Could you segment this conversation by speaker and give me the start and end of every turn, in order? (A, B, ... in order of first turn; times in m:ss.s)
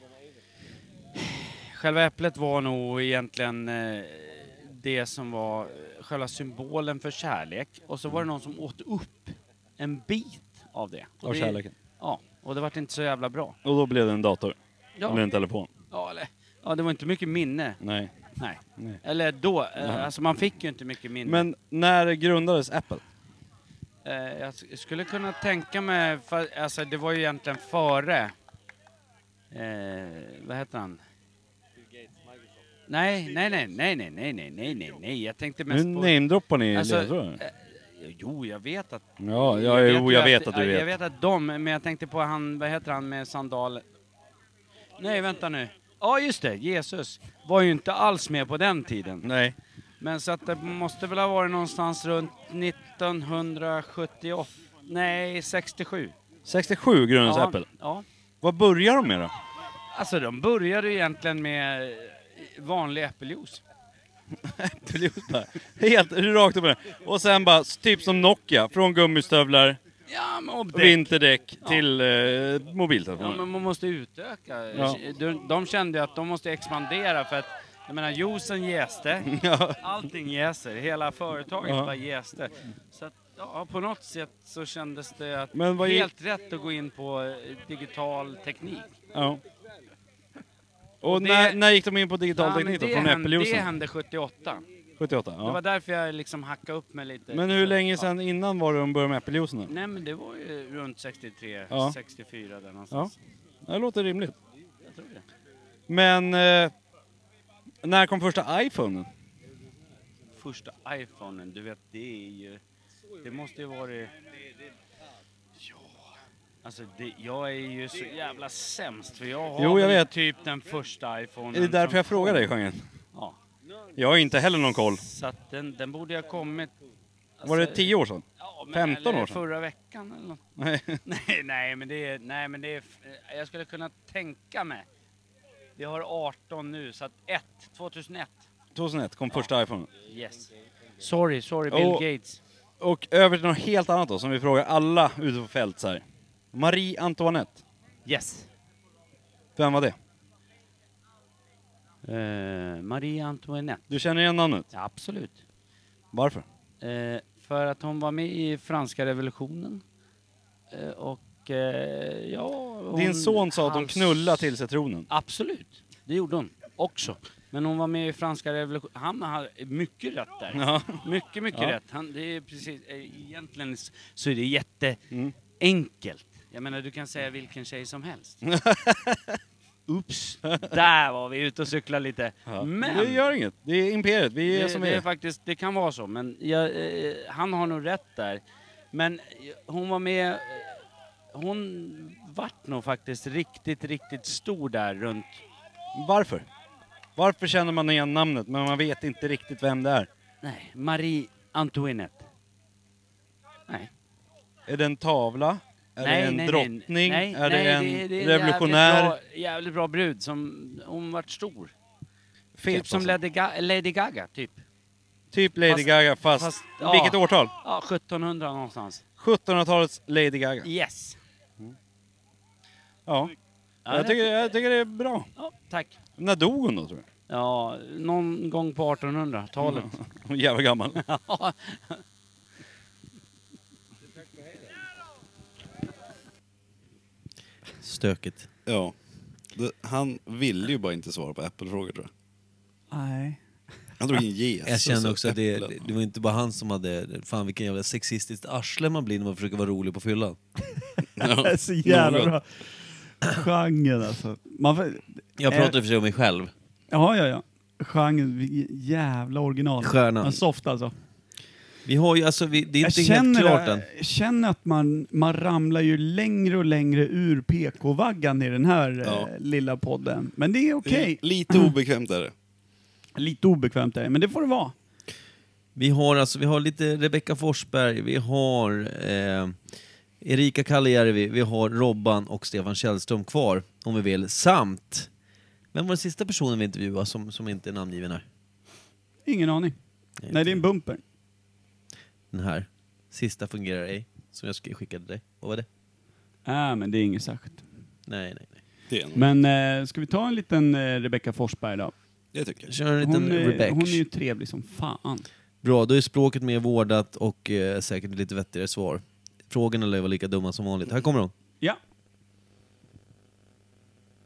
0:01.2-0:13.6 A
0:11.2-0:11.7 B
0:13.6-0:15.7 B
0:15.0-0:15.3 A
0:15.9-0:17.8 A
0:17.8-0:18.1 B
0:18.4-0:21.5 A
0:19.8-0:20.1 B
0:21.2-0:23.0 B
0:24.0-0:28.3 A
0:29.5-0:31.0 A
0:32.9-0:43.8 A
0:35.7-0:37.4 B
0:39.2-0:41.0 B
0:45.0-0:49.3 A
0:49.2-0:49.6 B
0:50.0-0:56.1 A
0:56.5-0:57.7 B
0:57.2-0:58.0 A
0:58.4-0:59.3 B
0:59.9-1:03.6 A
1:04.4-1:09.8 B
1:10.1-1:11.8 A
1:10.7-1:13.4 B
1:13.2-1:19.3 A
1:14.7-1:15.0 B
1:19.3-1:19.8 B
1:19.8-1:29.0 A
1:21.6-1:21.9 B
1:25.5-1:26.1 B
1:29.1-1:29.4 B
1:31.0-1:33.7 B
1:31.0-1:31.6 A
1:32.4-1:34.7 A
1:35.0-1:35.6 B
1:35.4-1:38.1 A
1:37.3-1:39.7 B
1:39.7-1:43.1 A
1:41.7-1:42.0 B
1:43.6-1:44.4 B
1:44.8-1:45.2 A
1:45.9-1:46.7 B
1:47.8-1:49.1 B
1:50.4-1:52.6 A
1:53.2-1:54.1 A
1:56.6-2:02.5 A
1:59.6-2:00.1 B
2:01.5-2:02.8 B
2:04.0-2:05.0 B
2:05.0-2:06.7 A
2:07.4-2:10.4 A
2:07.4-2:09.4 B
2:10.6-2:11.0 B
2:11.1-2:14.9 A
2:15.8-2:18.4 A
2:18.7-2:19.9 B
2:20.0-2:20.5 A
2:21.0-2:22.4 A
2:21.7-2:22.0 B
2:22.8-2:27.6 B
2:28.1-2:28.5 A
2:29.6-2:30.0 B
2:32.0-2:33.9 A
2:33.9-2:34.7 B
2:34.7-2:35.4 A
2:36.1-2:36.5 B
2:36.8-2:39.8 A
2:40.7-2:44.5 A
2:42.9-2:45.1 B
2:45.1-2:58.4 A
2:50.5-2:51.8 B
2:58.4-2:59.4 B
2:59.9-3:03.2 A
3:02.5-3:05.1 B
3:04.5-3:10.8 A
3:11.3-3:15.4 A
3:15.9-3:16.5 B
3:17.2-3:20.1 B
3:20.4-3:22.3 A
3:24.7-3:29.2 B
3:26.0-3:31.7 A
3:32.6-3:33.2 B
3:32.7-3:34.6 A
3:35.3-3:37.5 B
3:35.7-3:39.0 A
3:39.2-3:40.7 B
3:40.6-3:41.2 A
3:43.1-3:43.3 B
3:43.9-3:44.6 A
3:43.9-3:45.3 B
3:45.4-3:46.0 A
3:46.2-3:47.1 B
3:47.3-3:49.9 A
3:49.6-3:51.0 B
3:51.0-3:52.0 A
3:57.8-3:58.5 C
3:58.7-3:58.9 D
3:59.5-4:02.1 D
4:02.9-4:03.4 E
4:04.0-4:05.8 D
4:04.7-4:10.4 C
4:11.2-4:12.3 D
4:11.2-4:12.4 E
4:13.2-4:15.8 E
4:15.4-4:16.5 C
4:16.9-4:20.9 E
4:19.8-4:20.4 C
4:21.8-4:23.8 C
4:22.8-4:31.8 E
4:29.0-4:29.3 D
4:30.8-4:32.3 D
4:33.2-4:34.7 E
4:35.8-4:39.6 C
4:40.2-4:45.1 C
4:45.7-4:48.2 C
4:49.3-4:49.8 E
4:50.2-4:50.6 C
4:50.3-4:51.0 E
4:52.3-4:55.7 C
4:56.5-4:57.6 E
4:58.1-4:58.6 C
4:58.9-4:59.3 D
4:59.2-5:01.9 E
5:02.3-5:02.7 D
5:02.7-5:04.0 C
5:03.0-5:05.3 E
5:05.6-5:11.3 C